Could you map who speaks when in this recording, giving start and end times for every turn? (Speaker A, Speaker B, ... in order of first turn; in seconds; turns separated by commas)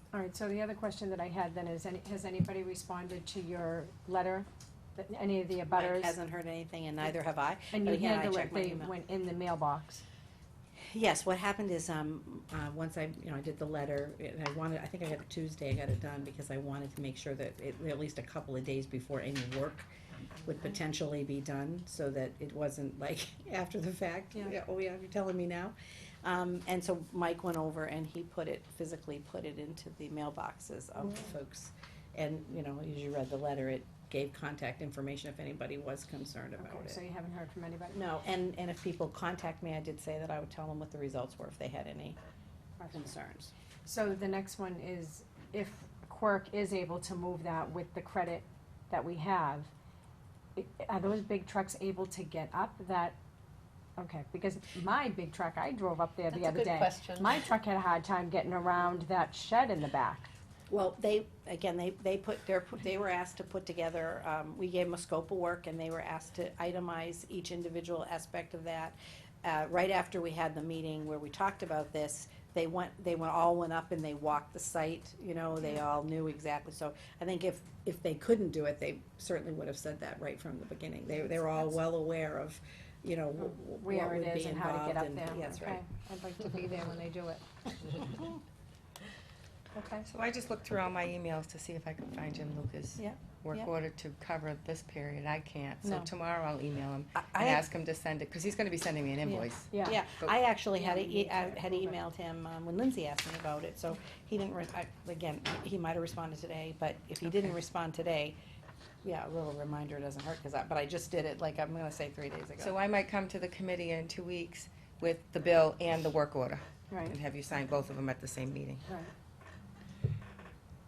Speaker A: 0.1-6.1, Speaker B: 5.7-8.9, Speaker A: 7.7-10.0, Speaker B: 10.9-19.9, Speaker B: 20.4-37.0, Speaker A: 36.6-38.0, Speaker B: 37.9-42.2, Speaker A: 42.8-43.1, Speaker B: 42.9-43.5, Speaker A: 43.9-49.7, Speaker A: 50.6-53.2, Speaker A: 54.0-60.3, Speaker B: 60.7-85.8, Speaker A: 83.8-87.9, Speaker B: 88.0-88.4, Speaker A: 89.7-90.1, Speaker C: 90.0-100.3, Speaker B: 93.0-93.7, Speaker B: 95.8-96.1, Speaker B: 97.1-97.7, Speaker B: 99.2-108.4, Speaker A: 99.7-100.0, Speaker A: 100.8-101.9, Speaker B: 109.0-112.8, Speaker C: 112.6-118.8, Speaker A: 116.9-117.2, Speaker A: 118.9-119.1